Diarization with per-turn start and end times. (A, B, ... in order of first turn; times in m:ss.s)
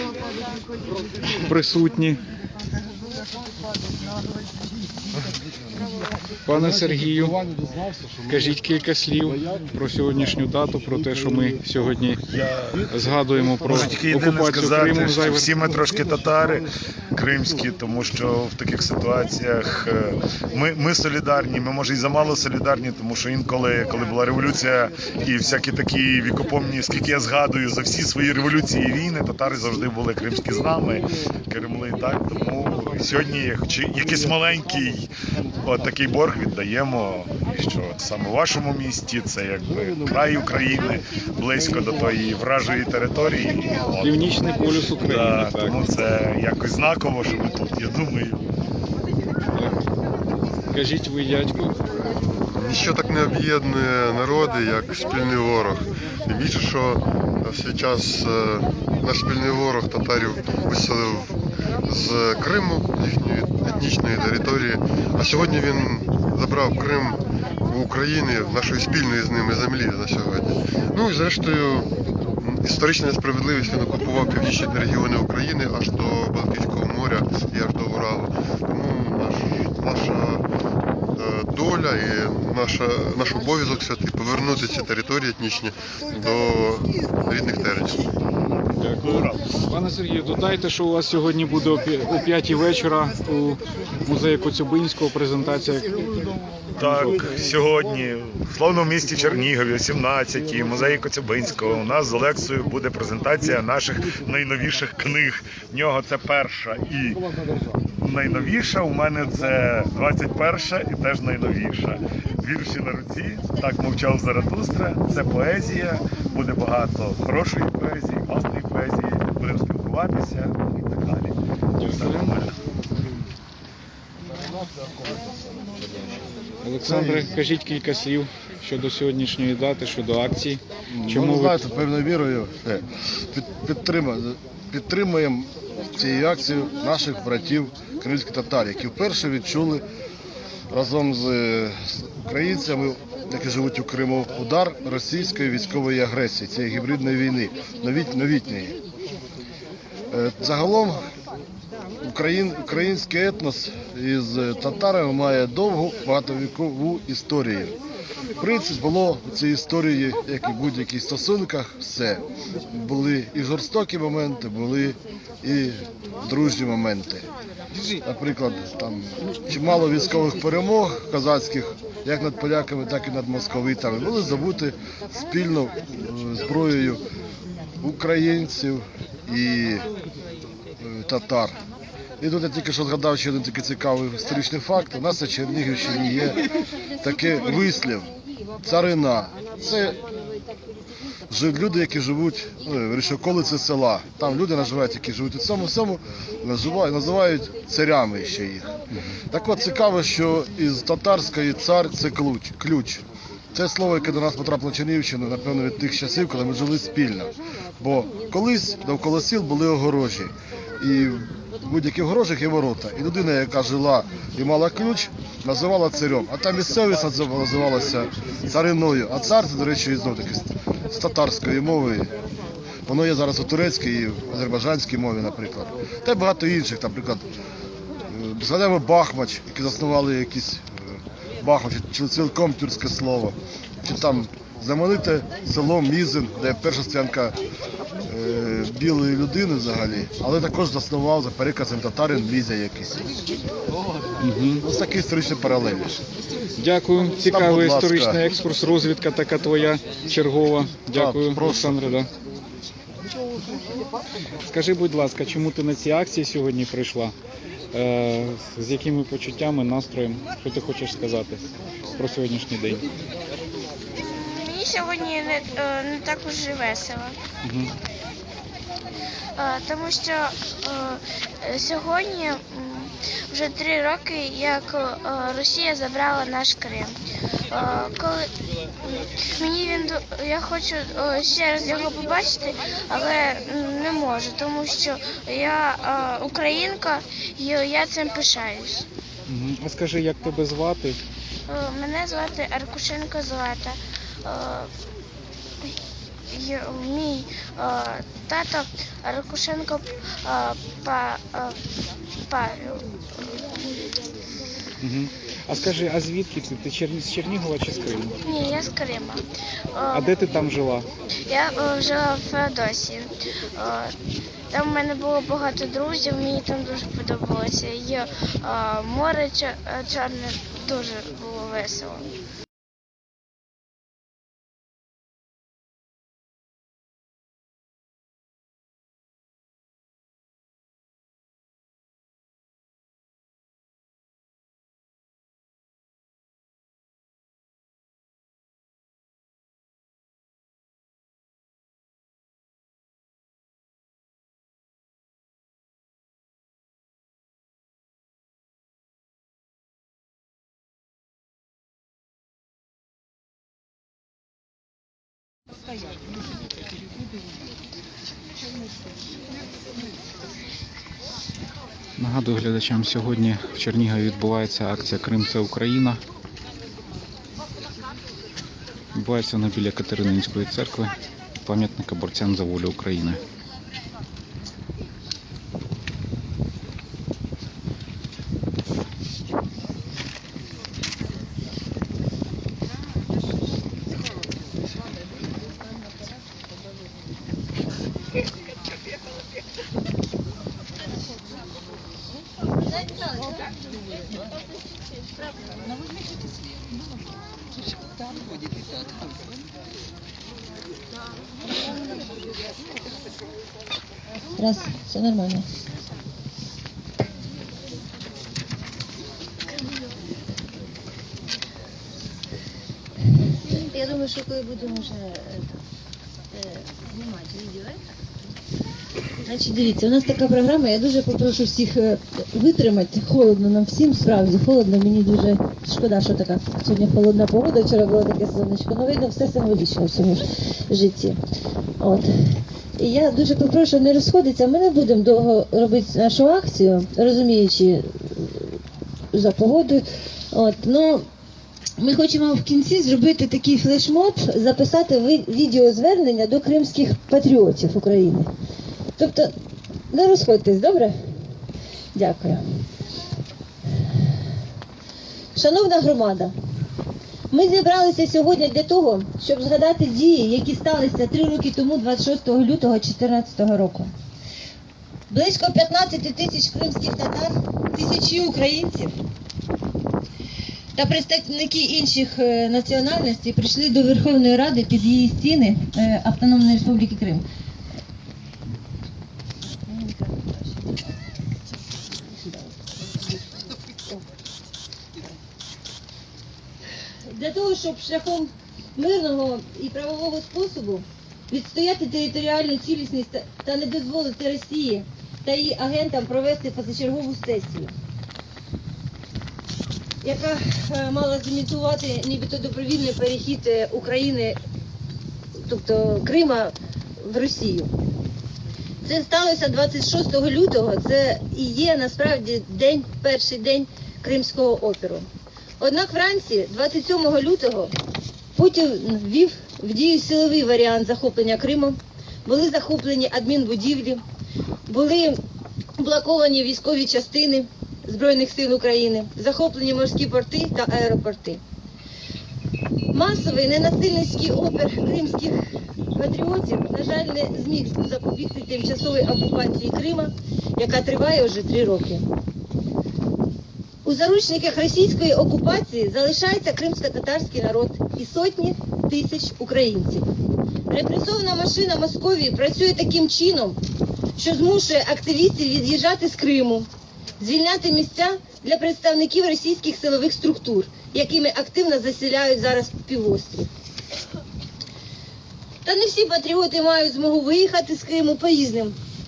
0:01.3-0:02.2 A
0:06.4-0:07.4 A
0:08.2-0:12.2 A
0:12.2-0:12.9 B
0:12.9-0:15.6 A
0:13.7-0:35.1 B
0:35.6-0:48.4 B
0:44.0-0:45.8 A
0:49.5-0:49.8 A
0:50.7-0:51.8 A
0:52.4-1:20.5 C
1:21.1-1:28.1 C
1:28.8-1:36.0 A
1:29.0-1:29.4 B
1:36.8-1:47.2 B
1:48.0-2:02.6 B
2:01.8-2:02.3 A
2:06.6-2:11.6 A
2:06.8-2:07.3 D
2:10.9-2:19.8 D
2:20.7-2:28.8 D
2:30.1-2:31.0 D
2:32.0-2:37.8 D
2:38.4-2:47.3 D
2:48.0-2:57.0 D
2:57.8-2:59.8 D
3:00.8-3:01.6 D
3:02.2-3:06.4 D
3:07.0-3:08.1 D
3:08.6-3:10.0 D
3:11.3-3:18.7 D
3:19.3-3:42.1 D
3:42.9-3:47.2 D
3:48.1-3:50.8 D
3:51.4-3:57.4 D
3:58.0-4:03.1 D
4:04.2-4:04.6 A
4:04.6-4:06.0 D
4:06.6-4:12.1 A
4:07.2-4:08.2 D
4:10.9-4:11.7 D
4:14.4-4:17.1 A
4:17.7-4:21.4 A
4:22.0-4:22.8 A
4:24.1-4:27.2 E
4:27.4-4:27.7 A
4:29.4-4:36.9 E
4:37.5-4:38.3 E
4:39.0-4:48.9 E
4:49.3-4:51.0 A
4:51.5-4:54.7 E
4:56.3-5:01.6 E
5:02.3-5:03.4 E
5:04.8-5:08.2 A
5:08.2-5:10.1 E
5:09.9-5:10.9 A
5:11.3-5:13.9 E
5:14.5-5:22.1 E
6:02.0-6:06.0 A
6:08.9-6:10.9 A
6:11.4-6:13.2 A
6:32.6-6:33.4 F
6:44.3-6:45.5 F
6:53.4-6:55.6 F
6:56.3-6:57.8 F
6:59.2-7:11.2 F
7:11.8-7:18.6 F
7:19.1-7:21.0 F
7:21.8-7:28.3 F
7:29.0-7:29.3 F
7:29.9-7:31.0 F
7:31.9-7:32.4 F
7:35.3-7:36.3 F
7:37.3-7:43.9 F
7:45.1-7:48.9 F
7:50.7-7:57.2 F
7:59.4-8:01.0 F
8:01.8-8:04.0 F
8:07.1-8:17.7 F
8:20.0-8:24.4 F
8:25.4-8:27.7 F
8:28.8-8:35.1 F
8:35.6-8:37.7 F
8:38.3-8:44.0 F
8:44.7-8:45.2 F
8:45.8-8:51.4 F
8:52.9-8:55.4 F
8:55.9-9:02.0 F
9:03.8-9:10.1 F
9:10.7-9:13.6 F
9:14.2-9:16.7 F
9:17.2-9:23.5 F
9:25.6-9:28.8 F